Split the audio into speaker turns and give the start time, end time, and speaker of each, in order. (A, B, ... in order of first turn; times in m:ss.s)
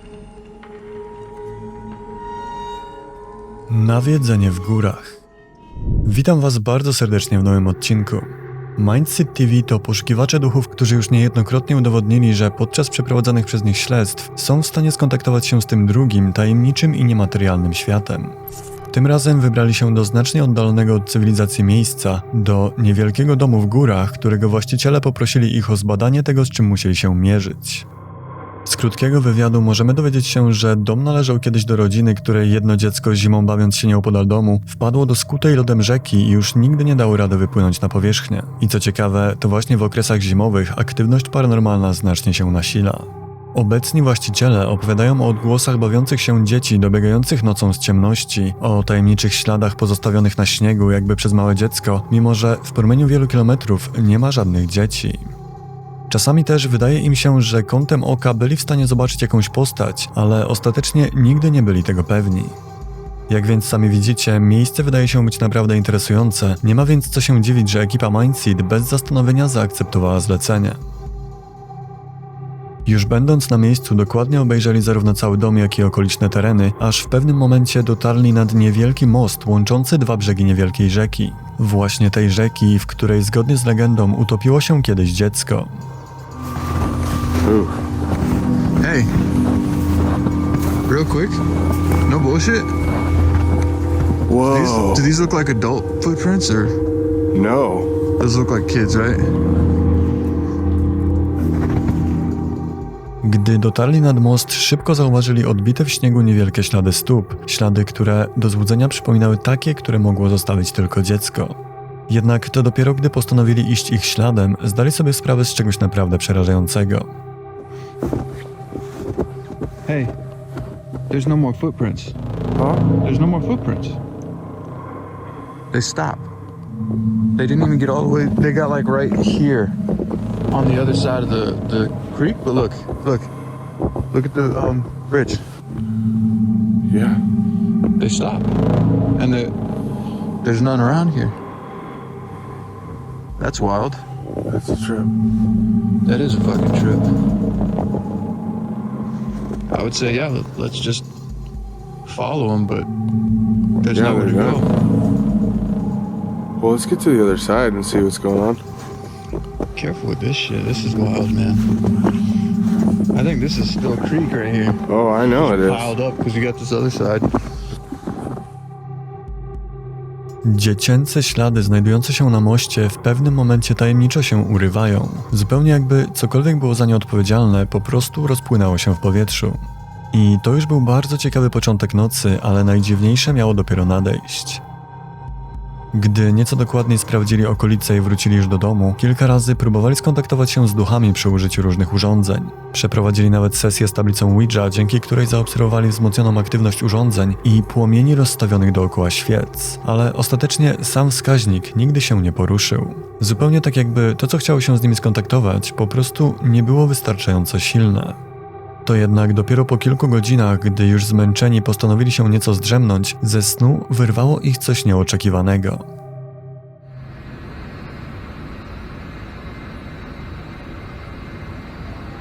0:03.7-0:05.2 A
0:06.0-0:18.4 A
0:18.9-0:27.9 A
0:28.7-0:55.3 A
0:56.1-1:02.6 A
1:03.3-1:10.8 A
1:12.8-1:25.8 A
1:27.4-1:27.8 B
1:28.8-1:29.1 C
1:30.9-1:31.4 C
1:32.1-1:32.7 C
1:34.3-1:35.1 B
1:34.4-1:36.7 C
1:37.3-1:37.9 B
1:38.2-1:39.3 C
1:43.2-1:51.6 A
1:52.1-1:57.1 A
1:59.9-2:00.1 C
2:01.1-2:04.0 C
2:05.7-2:06.3 C
2:07.4-2:09.8 C
2:10.5-2:13.3 C
2:14.1-2:15.4 C
2:16.9-2:17.2 B
2:18.0-2:18.5 C
2:19.2-2:19.5 C
2:20.4-2:21.4 C
2:23.4-2:24.0 C
2:24.5-2:25.1 B
2:26.0-2:27.1 C
2:29.7-2:31.1 C
2:32.1-2:32.9 C
2:33.8-2:34.7 C
2:33.8-2:34.6 B
2:36.6-2:38.6 B
2:39.8-2:41.6 C
2:43.1-2:47.3 C
2:44.9-2:46.0 B
2:50.4-3:04.6 A
3:05.9-3:28.2 A
3:28.8-3:35.9 A